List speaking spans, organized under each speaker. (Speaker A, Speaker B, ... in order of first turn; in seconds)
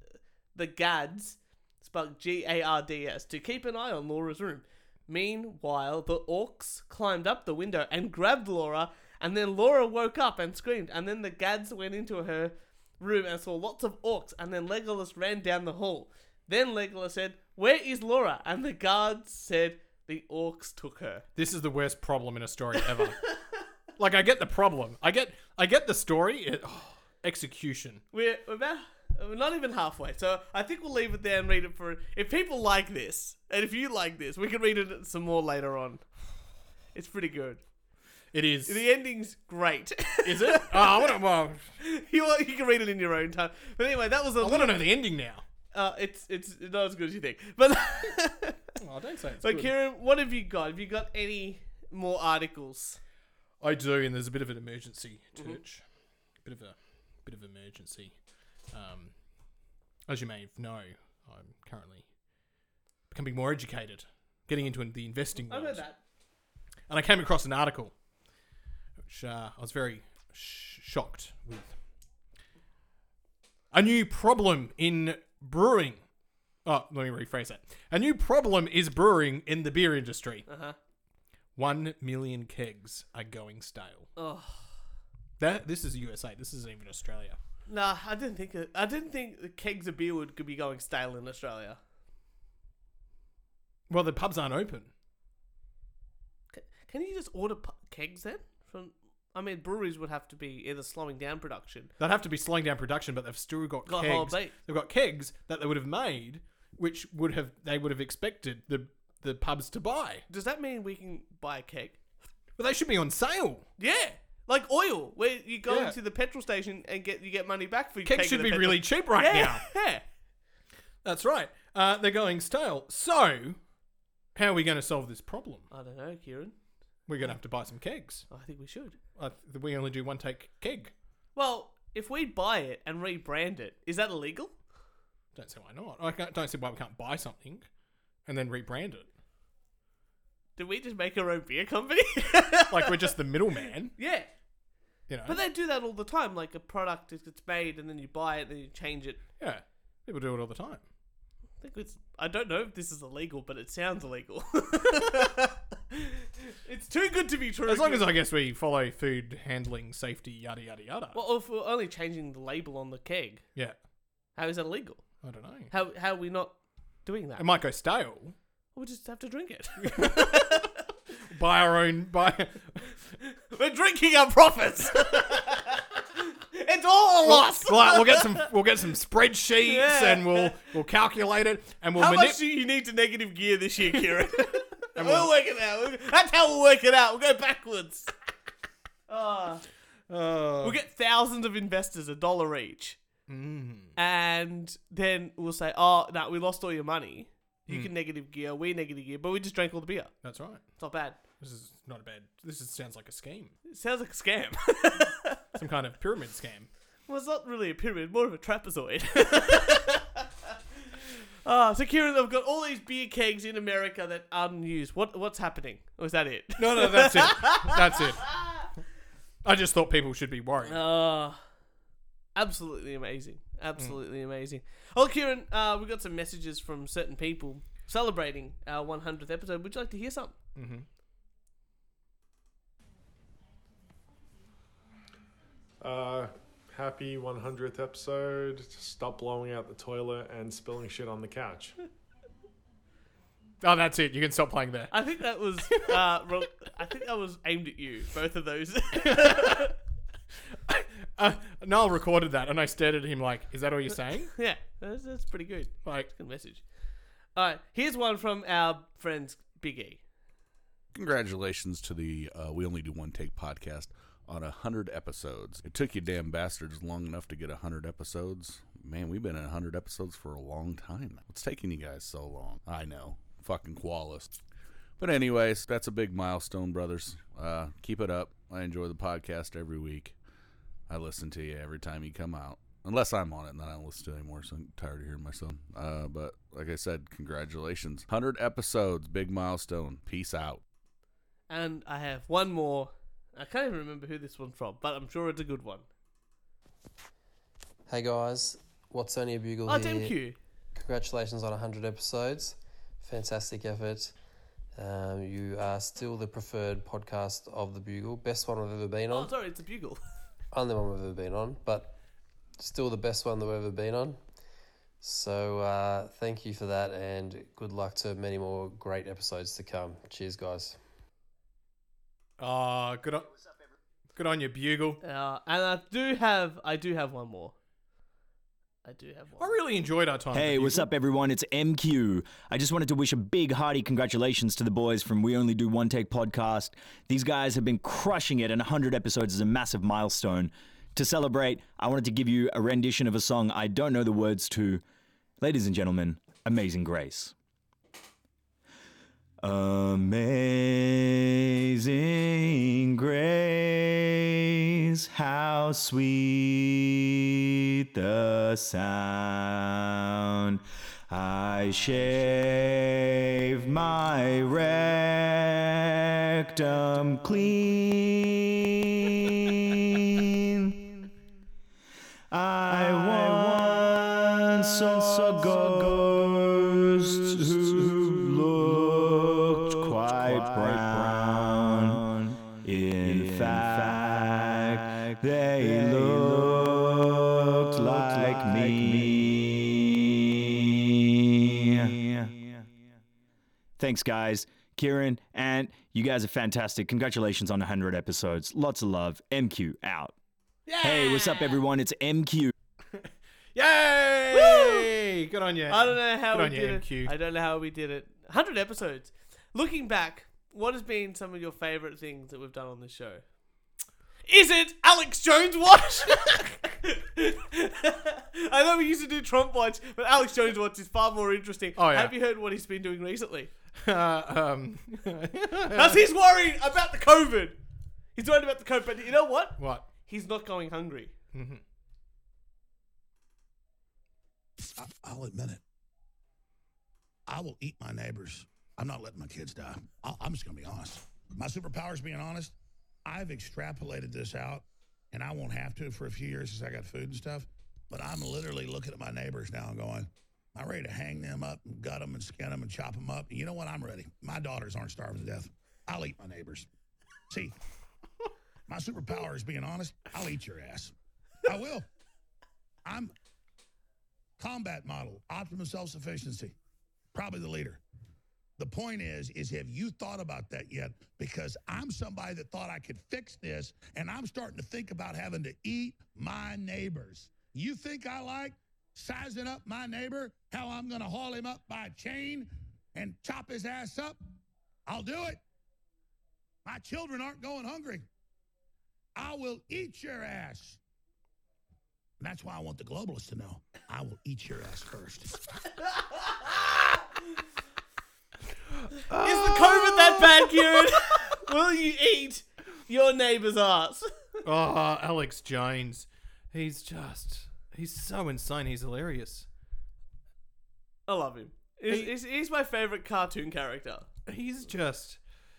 Speaker A: 0.5-21.2, 28.1-36.0, 36.9-37.6, 38.6-41.1, 41.8-44.8, 45.7-48.6, 49.4-53.0, 65.4-66.0, 80.5-80.8, 84.2-84.7, 87.7-91.8, 96.5-101.9, 103.8-104.5, 110.3-112.0, 113.8-120.0, 125.7-126.5, 128.3-129.0, 131.3-134.5, 140.6-143.1, 143.9-144.3, 145.2-149.2, 151.6-158.1, 161.1-163.4, 164.3-165.0, 165.7-167.4, 168.7-170.8, 173.5-178.5, 179.6-180.6, 181.9-188.1, 189.1-189.6, 190.6-193.0, 193.9-200.1, 200.8-201.2, 203.7-205.4, 207.1-210.2, 211.4-218.6, 220.6-221.4, 222.3-230.3, 244.9-249.7, 254.3-256.6, 257.3-260.0, 291.5-295.9, 299.7-300.4, 309.1-310.0, 325.0-327.5, 328.8-329.6, 400.6-401.6, 404.3-404.9, 405.7-413.2, 414.3-423.5, 425.7-427.6, 428.1-431.1, 499.2-504.1, 511.1-514.1
Speaker B: 21.4-23.2, 24.0-28.0, 38.3-38.8, 40.2-41.7, 44.4-45.4, 48.8-49.7, 53.6-55.8, 56.4-58.1, 58.7-59.1, 60.1-62.1, 63.1-65.8, 66.9-67.9, 69.0-71.7, 73.7-76.0, 76.6-80.5, 81.5-84.1, 85.4-87.4, 93.9-94.9, 102.0-110.2, 112.6-113.7, 115.7-116.0, 118.0-119.7, 121.0-123.6, 124.3-125.7, 127.1-128.3, 129.1-130.9, 135.3-137.7, 138.2-139.1, 142.7-143.9, 145.1-145.4, 149.4-150.8, 157.7-161.2, 165.2-165.7, 167.3-168.3, 169.8-170.6, 171.3-172.8, 177.2-182.4, 184.9-185.3, 190.1-190.8, 193.3-193.9, 200.2-200.6, 201.4-203.5, 205.5-206.7, 216.6-218.3, 219.4-220.8, 230.5-230.9, 243.6-244.9, 245.7-246.0, 249.0-249.7, 250.5-254.3, 255.8-256.1, 322.4-323.3, 324.1-325.0, 329.4-330.9, 402.9-407.1, 421.8-422.1, 423.7-426.0, 429.6-429.9, 431.3-431.6, 499.1-500.9, 504.4-509.5, 511.9-512.1, 514.2-515.2
Speaker C: 235.8-241.8
Speaker D: 260.9-274.3, 275.0-280.1, 280.9-290.6
Speaker E: 297.9-300.1, 300.8-304.1, 304.7-309.3, 310.5-311.9, 312.6-314.2, 315.0-320.8
Speaker F: 330.3-344.8, 345.4-347.3, 349.4-357.1, 357.9-370.2, 372.3-390.1, 391.4-392.6, 393.8-400.1, 400.8-402.5
Speaker G: 434.6-435.6, 437.3-442.5, 443.0-456.7, 457.3-457.5, 458.7-460.9, 461.4-461.9, 462.8-463.1, 464.4-466.5, 467.1-467.8, 468.6-484.2, 484.9-485.4, 486.6-488.1, 489.1-490.8, 492.2-495.4